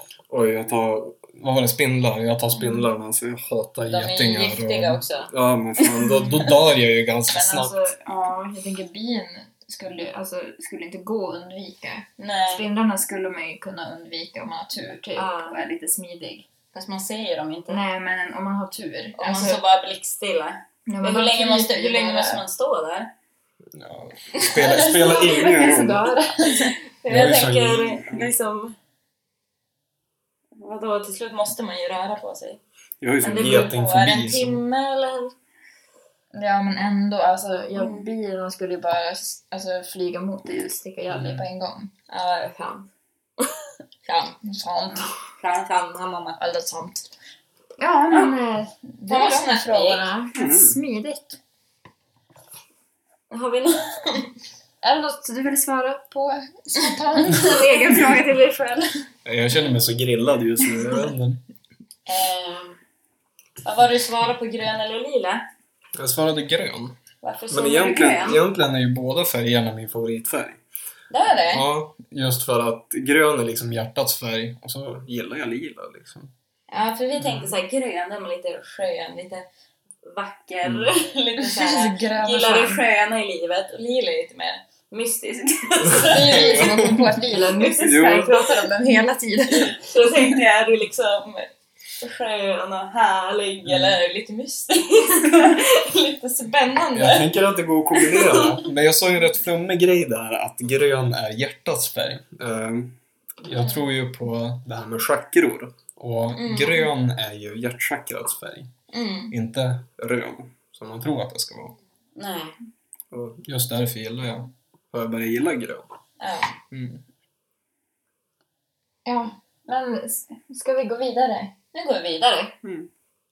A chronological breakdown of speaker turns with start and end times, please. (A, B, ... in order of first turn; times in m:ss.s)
0:00.3-0:08.0 A
0:02.6-0:02.8 B
0:03.9-0:06.6 C
0:07.3-0:16.5 B
0:12.2-0:12.7 C
0:15.2-0:15.6 C
0:16.7-0:17.8 C
0:17.7-0:19.6 B
0:19.2-0:23.1 C
0:20.9-0:22.4 B
0:23.7-0:26.1 A
0:24.4-0:24.8 C
0:24.6-0:26.8 B
0:26.6-0:28.8 C
0:27.1-0:28.3 A
0:30.6-0:32.6 C
0:33.0-0:34.6 A
0:33.2-0:35.3 C
0:36.3-0:41.9 B
0:37.8-0:38.1 C
0:41.1-0:41.4 A
0:42.1-0:44.4 C
0:44.4-0:45.1 B
0:45.3-0:47.1 C
0:47.8-0:51.4 B
0:48.1-0:48.4 C
0:49.1-0:50.1 C
0:50.4-0:50.8 A
0:53.3-0:54.3 C
0:54.8-0:58.9 B
0:57.3-0:58.3 C
0:59.2-1:01.4 A
1:02.1-1:02.8 C
1:03.6-1:05.4 C
1:06.0-1:07.0 A
1:07.2-1:08.4 C
1:07.5-1:10.6 A
1:11.1-1:11.7 C
1:11.5-1:16.3 A
1:16.7-1:19.5 C
1:17.2-1:17.5 A
1:20.0-1:28.3 C
1:20.6-1:20.9 A
1:21.4-1:22.8 B
1:25.9-1:29.8 B
1:26.0-1:27.0 A
1:27.8-1:28.4 A
1:29.5-1:31.5 C
1:32.0-1:37.3 C
1:33.6-1:34.0 A
1:37.0-1:48.7 A
1:37.9-1:38.6 C
1:46.3-1:46.9 C
1:48.9-1:49.3 C
1:49.3-1:51.8 A
1:52.2-1:52.6 C
1:53.1-1:55.9 A
1:56.2-1:56.6 C
1:56.7-1:57.0 A
1:59.1-2:01.5 B
2:01.7-2:02.6 C